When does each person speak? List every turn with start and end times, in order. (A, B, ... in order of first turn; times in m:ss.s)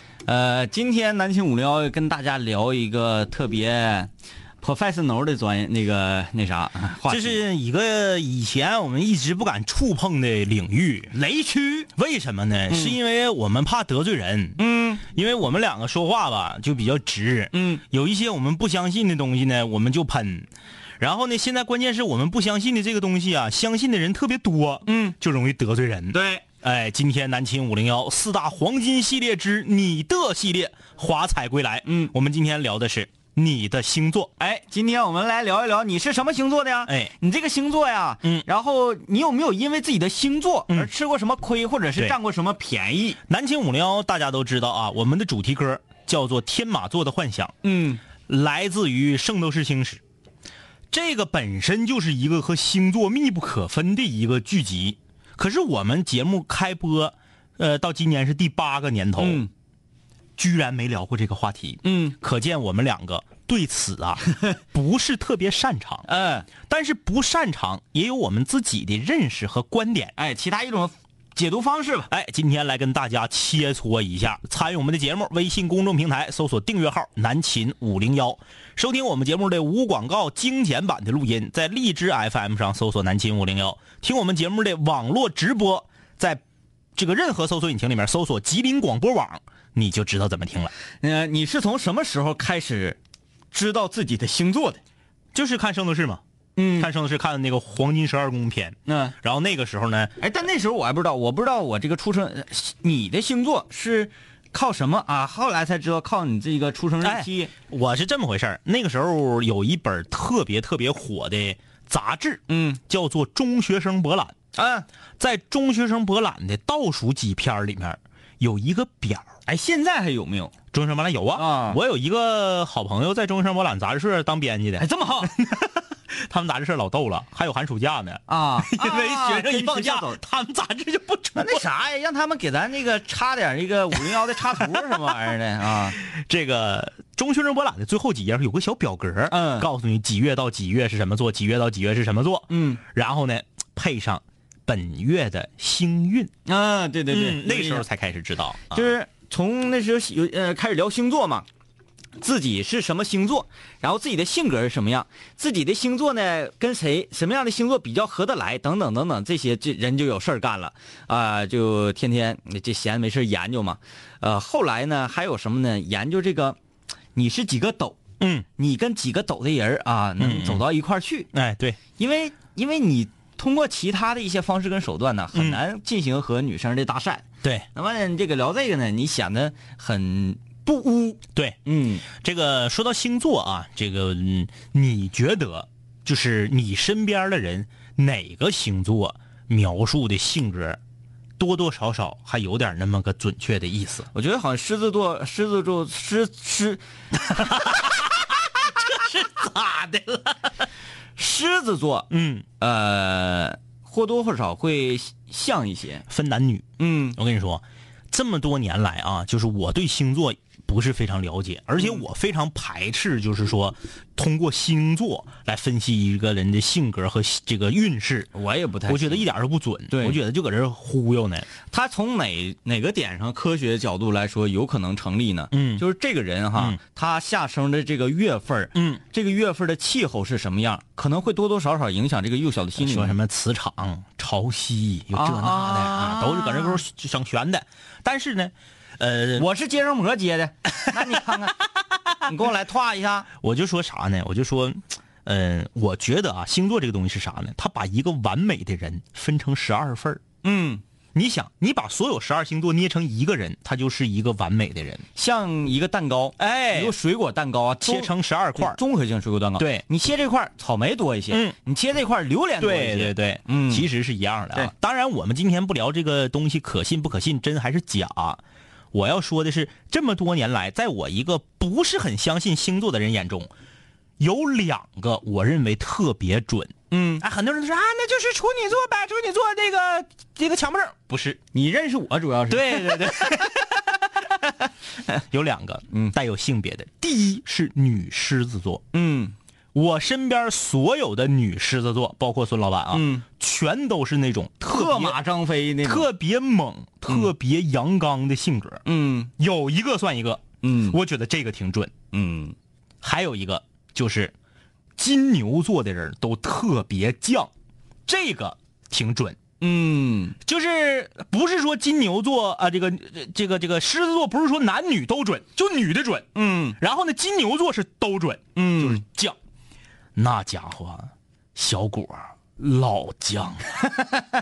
0:00.3-0:04.1 A
0:04.6-0:07.4 A
0:07.1-0:11.1 B
0:11.1-0:11.9 A
0:12.0-0:20.5 B
0:12.7-0:13.0 A
0:14.6-0:15.0 A
0:17.5-0:17.8 A
0:21.0-0:34.3 B
0:24.9-0:25.2 A
0:26.1-0:26.4 A
0:31.8-0:32.1 A
0:34.4-0:43.2 A
0:36.9-0:37.1 B
0:43.3-0:47.6 B
0:47.6-0:48.0 A
0:48.2-0:50.0 B
0:50.9-0:59.4 B
0:59.2-0:59.5 A
1:00.4-1:06.0 B
1:01.8-1:02.2 A
1:06.1-1:06.5 A
1:06.6-1:10.1 B
1:10.2-1:12.1 A
1:12.1-1:26.4 B
1:27.0-1:30.7 B
1:31.0-1:33.0 A
1:33.5-1:34.8 A
1:35.3-1:36.2 B
1:36.6-1:36.9 A
1:36.8-1:40.1 B
1:38.9-1:39.1 A
1:40.2-1:47.5 A
1:47.0-1:54.3 B
1:52.5-1:52.8 A
1:54.6-1:54.9 A
1:55.2-1:59.3 B
1:59.4-2:00.5 A
2:00.7-2:11.6 B
2:01.3-2:01.8 A
2:04.8-2:05.3 A
2:08.3-2:10.2 A
2:11.4-2:16.0 A
2:14.1-2:14.9 B
2:16.0-2:26.3 B
2:19.3-2:19.7 A
2:22.5-2:22.8 A
2:26.4-2:27.8 A
2:27.1-2:28.9 B
2:28.7-2:31.4 A
2:32.2-2:46.6 A
2:47.1-2:48.0 A
2:48.2-2:48.4 B
2:48.6-2:51.3 A
2:50.2-2:50.7 B
2:51.3-2:51.8 B
2:52.0-3:02.0 A
2:55.3-2:55.6 B
3:01.3-3:10.8 B
3:11.4-3:14.1 B
3:14.1-3:16.8 A
3:17.2-3:20.4 B
3:21.2-3:26.0 A
3:22.1-3:22.4 B
3:26.1-3:38.3 B
3:26.8-3:27.2 A
3:38.3-3:39.2 A
3:38.9-3:41.5 B
3:39.9-3:40.2 A
3:41.7-3:53.2 A
3:45.5-3:45.8 B
3:48.7-3:49.0 B
3:52.8-3:59.5 B
3:55.1-3:56.8 A
3:59.4-4:01.6 A
4:02.2-4:03.3 A
4:03.4-4:10.2 B
4:10.4-4:10.8 A
4:11.2-4:15.0 B
4:15.2-4:23.9 A
4:16.4-4:16.9 B
4:17.8-4:18.8 B
4:19.6-4:19.8 B
4:21.3-4:21.6 B
4:22.6-4:28.4 B
4:28.9-4:33.5 B
4:34.2-4:41.4 B
4:36.9-4:37.2 A
4:41.5-4:43.4 A
4:42.5-4:44.3 B
4:45.3-4:48.8 B
4:48.9-4:49.4 A
4:49.7-4:55.2 B
4:52.9-4:53.2 A
4:54.7-4:56.1 A
4:55.8-4:58.8 B
4:58.9-4:59.3 A
4:59.4-5:01.9 B
5:00.6-5:01.0 A
5:02.1-5:02.6 A
5:03.0-5:04.3 B
5:05.0-5:07.5 B
5:08.1-5:09.4 B
5:09.6-5:10.4 A
5:10.4-5:19.4 B
5:16.4-5:16.8 A
5:18.6-5:19.0 A
5:20.2-5:24.2 B